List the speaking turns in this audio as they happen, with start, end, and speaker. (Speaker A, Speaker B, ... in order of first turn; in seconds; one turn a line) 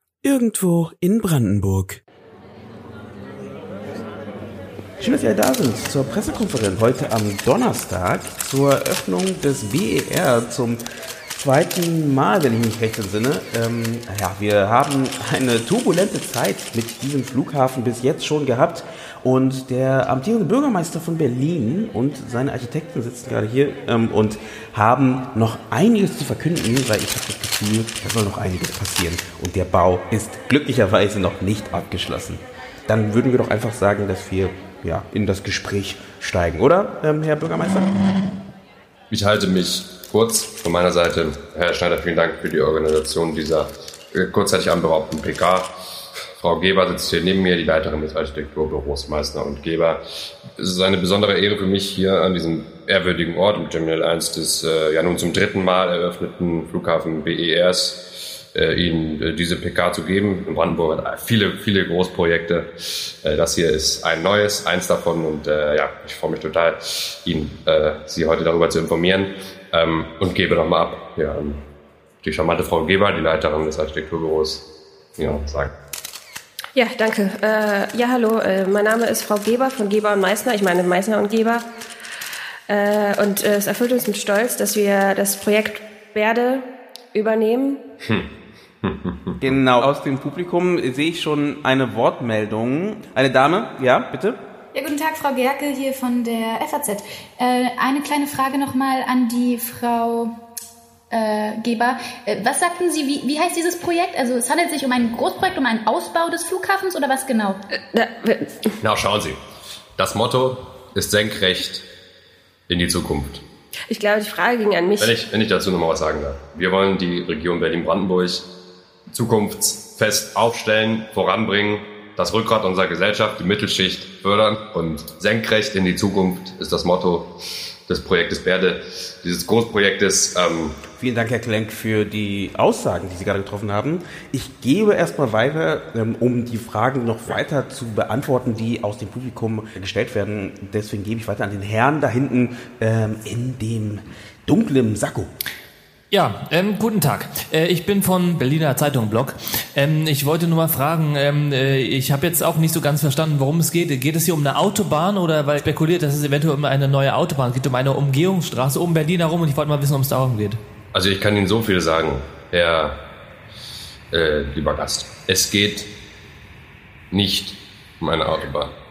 Speaker A: 0.2-2.0
Speaker A: 5.0-10.8
Speaker A: 11.4-37.9
Speaker B: 39.1-45.7
Speaker B: 46.4-50.0
Speaker B: 50.5-58.0
Speaker B: 58.5-62.7
Speaker B: 63.2-71.6
Speaker B: 72.2-74.6
Speaker B: 75.2-75.7
Speaker C: 76.8-81.7
Speaker C: 82.7-87.8
Speaker B: 88.0-88.3
Speaker B: 88.8-89.4
Speaker A: 89.4-94.4
Speaker D: 94.7-100.3
Speaker D: 101.1-107.6
Speaker C: 107.9-108.7
Speaker B: 108.8-109.4
Speaker B: 110.0-111.8
Speaker B: 112.7-113.4
Speaker C: 113.9-115.2
Speaker B: 115.0-118.5
Speaker B: 119.1-127.3
Speaker B: 127.9-130.8
Speaker A: 131.0-145.3
Speaker E: 146.1-160.6
Speaker B: 160.9-163.0
Speaker B: 164.1-165.9
Speaker B: 167.1-168.7